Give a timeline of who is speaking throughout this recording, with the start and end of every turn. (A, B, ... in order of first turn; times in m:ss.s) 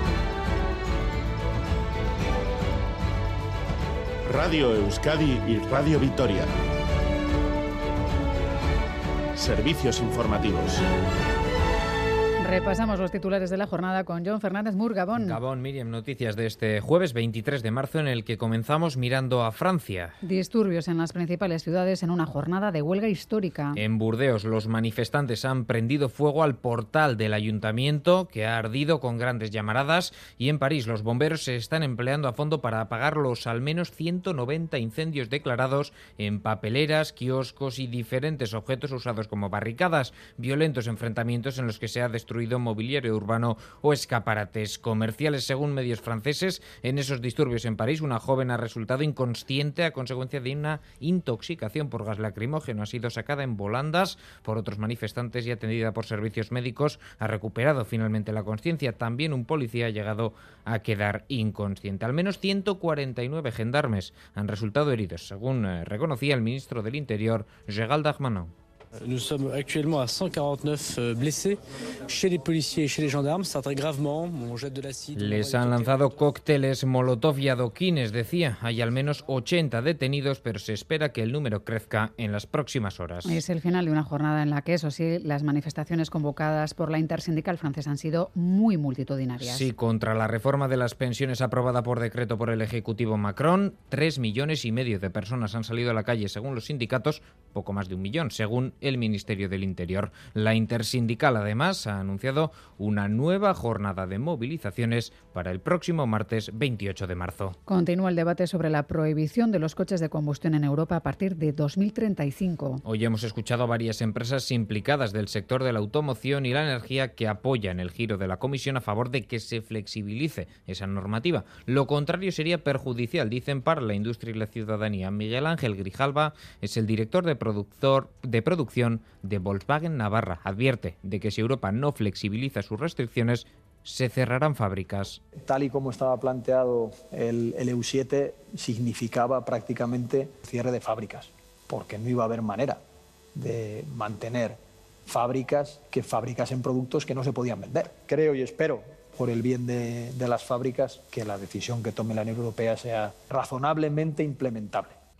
0:04.2-0:06.5 A
0:09.4-0:10.9 A
0:12.4-0:15.4 B
0:15.2-0:20.2 C
0:20.2-0:23.8 B
0:23.8-1:08.5 C
1:09.0-1:16.1 D
1:15.2-1:23.4 C
1:23.2-1:29.7 B
1:29.4-1:47.6 C
1:47.7-1:52.8 B
1:52.8-2:15.2 C
2:15.4-2:22.8 E
2:23.4-2:35.0 E